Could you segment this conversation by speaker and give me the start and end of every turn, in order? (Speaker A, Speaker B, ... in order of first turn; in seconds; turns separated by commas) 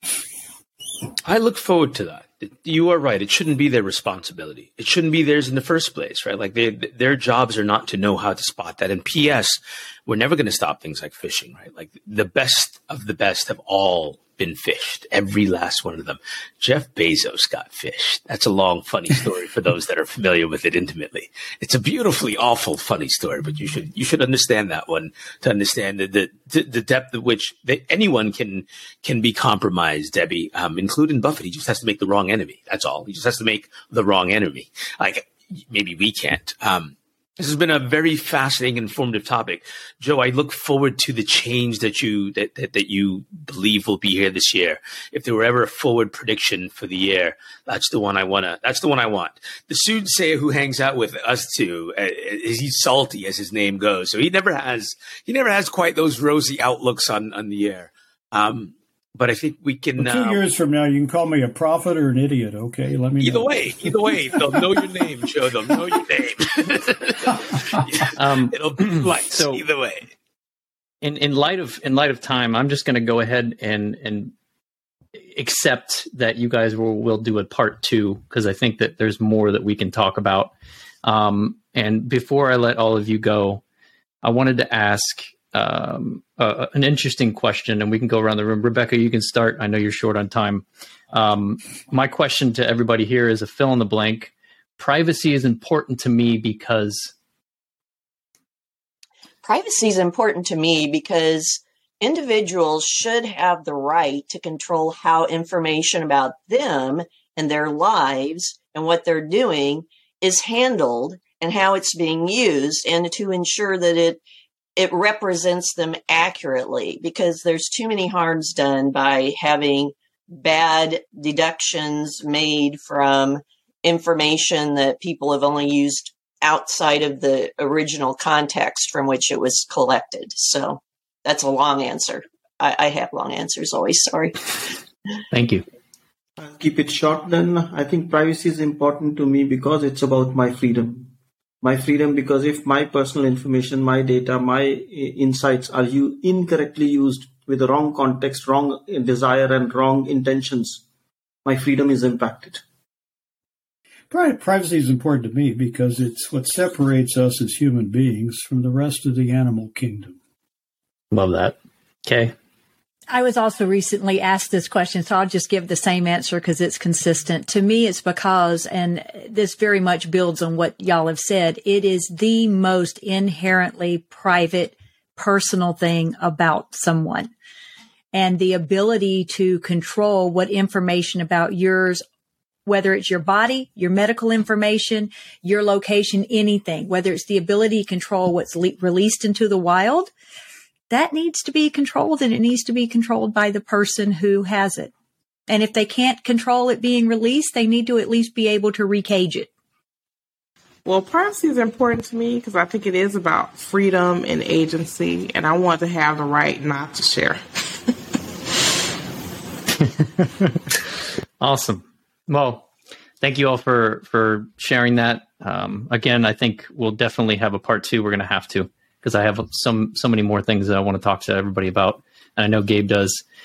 Speaker A: 1.3-60.4, Speaker B: 60.0-64.7, Speaker A: 63.2-70.1, Speaker C: 68.2-69.6, Speaker C: 71.0-74.3, Speaker C: 75.2-80.5, Speaker C: 81.0-83.6, Speaker C: 84.2-97.1, Speaker D: 99.4-114.2, Speaker D: 114.8-134.6, Speaker C: 135.3-135.7, Speaker E: 136.4-150.8, Speaker E: 151.4-152.6, Speaker B: 154.1-160.2, Speaker C: 161.1-162.3, Speaker F: 163.1-177.3, Speaker F: 178.1-182.0, Speaker F: 182.7-190.1, Speaker F: 190.9-194.9, Speaker F: 195.5-199.5, Speaker G: 200.8-207.4, Speaker C: 211.4-212.7, Speaker C: 213.2-223.2